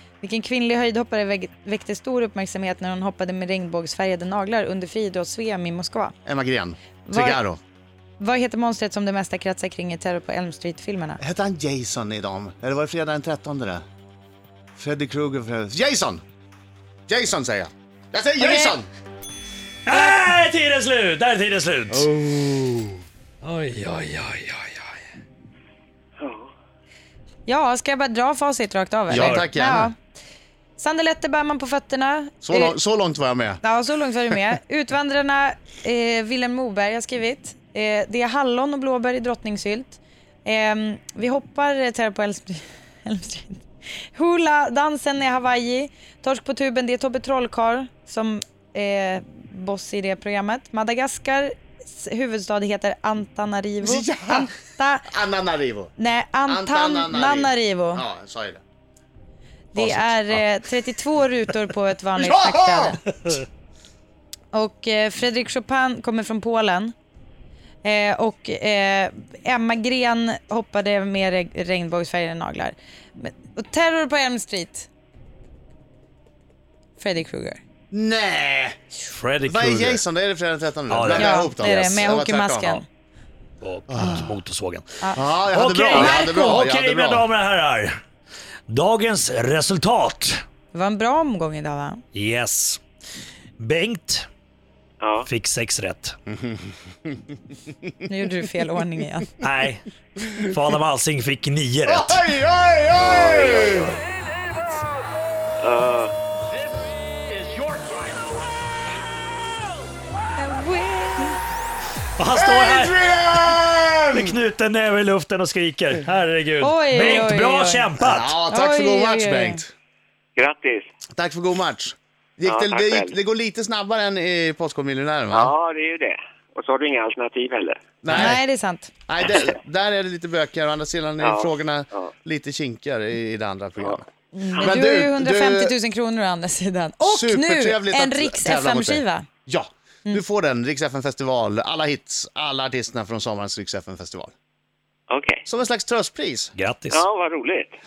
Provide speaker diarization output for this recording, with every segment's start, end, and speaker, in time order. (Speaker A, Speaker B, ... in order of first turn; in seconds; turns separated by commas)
Speaker A: 0.2-6.1, Speaker B: 6.2-7.6, Speaker A: 7.0-7.4, Speaker A: 8.2-11.2, Speaker B: 11.2-13.8, Speaker B: 14.8-16.2, Speaker B: 17.1-18.9, Speaker A: 18.4-18.8, Speaker C: 19.9-22.9, Speaker A: 19.9-20.2, Speaker C: 23.4-24.9, Speaker D: 26.2-26.5, Speaker A: 27.4-29.9, Speaker B: 29.1-29.9, Speaker C: 29.1-29.4, Speaker A: 30.8-32.8, Speaker B: 32.4-33.6, Speaker A: 33.6-55.1, Speaker B: 53.8-54.5, Speaker B: 55.1-55.9, Speaker A: 56.0-58.0, Speaker B: 56.5-58.6, Speaker A: 59.7-63.0, Speaker B: 59.7-60.1, Speaker B: 62.2-63.0, Speaker A: 64.5-66.9, Speaker A: 67.8-74.9, Speaker A: 77.0-77.6, Speaker B: 77.9-78.8, Speaker C: 79.1-80.0, Speaker B: 79.5-82.8, Speaker C: 80.9-81.4, Speaker A: 81.1-82.8, Speaker C: 83.6-84.8, Speaker B: 83.9-84.3, Speaker B: 85.1-87.3, Speaker C: 85.5-87.9, Speaker D: 85.9-86.2, Speaker C: 88.7-90.4, Speaker A: 90.7-92.0, Speaker C: 92.1-92.8, Speaker C: 93.6-94.3, Speaker D: 95.0-95.3, Speaker C: 95.2-96.2, Speaker B: 96.3-97.2, Speaker A: 98.1-99.3, Speaker C: 99.4-99.8, Speaker C: 100.3-102.2, Speaker B: 101.8-104.0, Speaker D: 103.0-104.0, Speaker D: 105.6-106.1, Speaker A: 110.4-111.4, Speaker C: 112.2-112.9, Speaker B: 112.3-114.3, Speaker C: 114.1-118.3, Speaker A: 116.6-117.9, Speaker B: 118.0-119.7, Speaker A: 118.5-119.6, Speaker D: 120.3-120.9, Speaker B: 121.2-125.5, Speaker D: 122.4-123.1, Speaker D: 125.3-127.8, Speaker B: 128.0-128.4, Speaker A: 128.1-128.9, Speaker B: 129.1-135.7, Speaker D: 131.2-132.1, Speaker A: 134.3-139.3, Speaker B: 137.0-144.3, Speaker D: 145.1-145.4, Speaker B: 145.4-146.5, Speaker C: 146.5-147.0, Speaker D: 146.9-147.8